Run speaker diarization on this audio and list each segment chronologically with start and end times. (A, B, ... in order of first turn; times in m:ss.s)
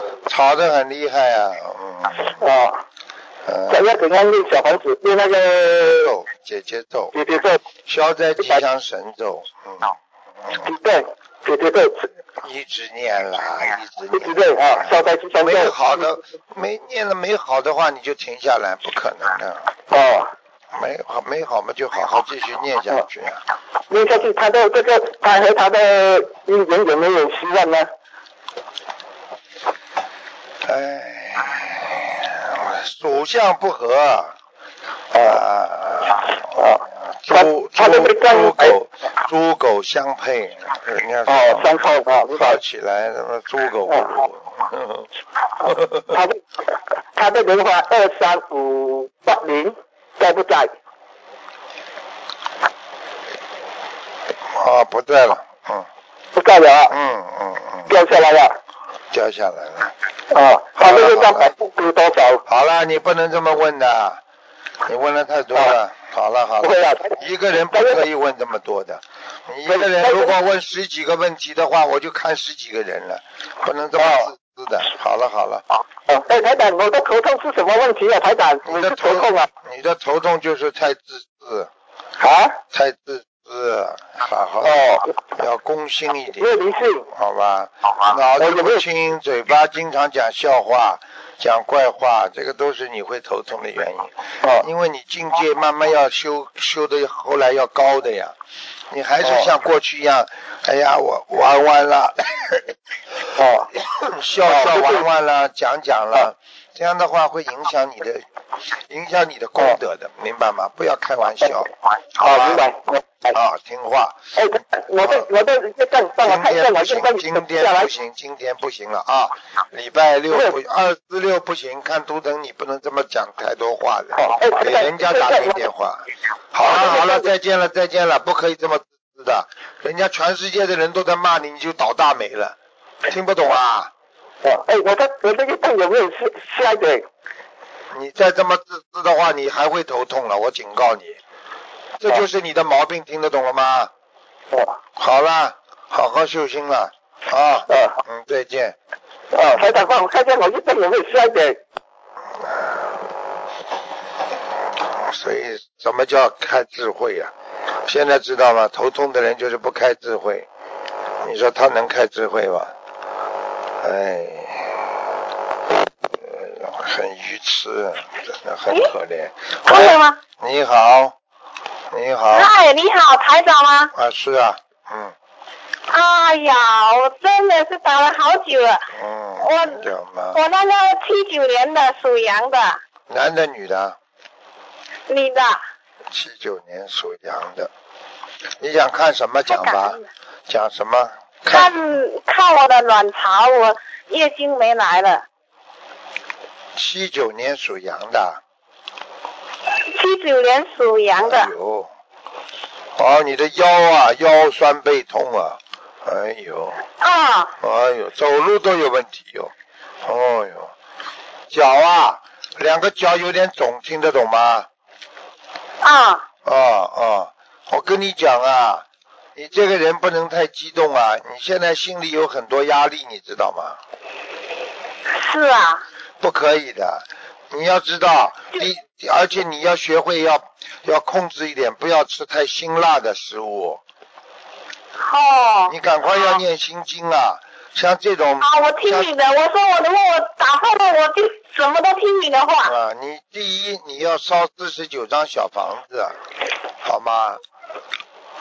0:00.3-0:02.4 A
0:02.4-0:02.8 B
0:03.4-0:03.9 A
0:03.7-0:06.1 B
0:06.0-0:07.1 A
0:07.1-0:07.6 B
0:07.9-0:09.9 A
0:10.5-0:12.1 B
0:12.4-0:19.7 A
0:14.1-0:16.0 B
0:19.9-0:20.3 B
0:20.7-0:23.4 A
0:23.9-0:27.9 B
0:30.6-0:34.4 A
0:35.1-0:35.4 B
0:35.2-0:41.7 A
0:36.5-0:38.8 B
0:41.2-0:42.6 B
0:42.3-0:45.1 A
0:43.8-0:44.2 B
0:45.6-0:46.0 A
0:45.7-0:46.4 B
0:47.2-0:50.7 B
0:54.5-0:55.9 A
0:56.3-0:56.9 B
0:56.9-0:58.0 A
0:57.9-0:58.6 B
0:59.1-0:59.9 A
1:00.3-1:02.4 B
1:00.8-1:01.5 A
1:02.4-1:04.2 A
1:04.8-1:15.6 A
1:06.6-1:07.2 B
1:07.7-1:08.0 B
1:09.7-1:10.4 B
1:14.0-1:14.3 B
1:16.0-1:19.5 B
1:18.6-1:21.7 A
1:22.2-1:22.6 B
1:22.7-1:26.5 A
1:24.6-1:25.1 B
1:26.4-1:27.1 B
1:27.1-1:38.4 A
1:28.4-1:28.8 B
1:38.9-1:42.7 A
1:39.2-1:39.5 B
1:43.3-1:43.7 B
1:43.7-1:48.2 A
1:44.4-1:45.0 B
1:48.8-1:52.6 A
1:52.2-1:53.4 B
1:53.3-1:54.2 A
1:54.4-1:57.9 B
1:55.0-1:55.2 A
1:56.2-2:12.6 A
2:00.3-2:00.6 B
2:04.1-2:05.6 B
2:06.6-2:07.3 B
2:13.1-2:13.9 A
2:14.4-2:17.0 B
2:17.9-2:21.2 A
2:22.0-2:23.9 A
2:24.5-2:24.8 B
2:25.0-2:28.8 A
2:27.7-2:28.0 B
2:29.3-2:31.6 B
2:32.5-2:32.8 A
2:34.9-2:37.3 A
2:37.8-2:40.5 A
2:41.2-2:42.7 A
2:43.8-2:44.9 A
2:46.2-2:51.1 A
2:49.6-2:50.2 C
2:51.9-2:52.5 A
2:52.3-2:53.9 C
2:53.9-2:55.1 A
2:55.9-2:58.9 C
2:58.9-3:00.4 A
2:59.4-3:02.8 C
3:03.1-3:04.0 A
3:05.1-3:05.6 C
3:06.1-3:07.7 A
3:08.6-3:11.7 A
3:09.5-3:10.0 C
3:11.5-3:15.2 C
3:16.7-3:18.4 A
3:19.9-3:21.5 C
3:21.2-3:21.9 A
3:23.0-3:26.8 A
3:27.0-3:27.5 C
3:27.6-3:29.5 A
3:30.0-3:30.7 A
3:31.5-3:34.7 A
3:35.8-3:36.2 C
3:36.4-3:43.8 A
3:45.2-3:45.8 C
3:46.2-3:53.8 A
3:55.0-3:55.7 C
3:55.7-3:59.1 A
3:58.4-4:02.7 C
4:02.6-4:06.2 A
4:06.8-4:07.4 A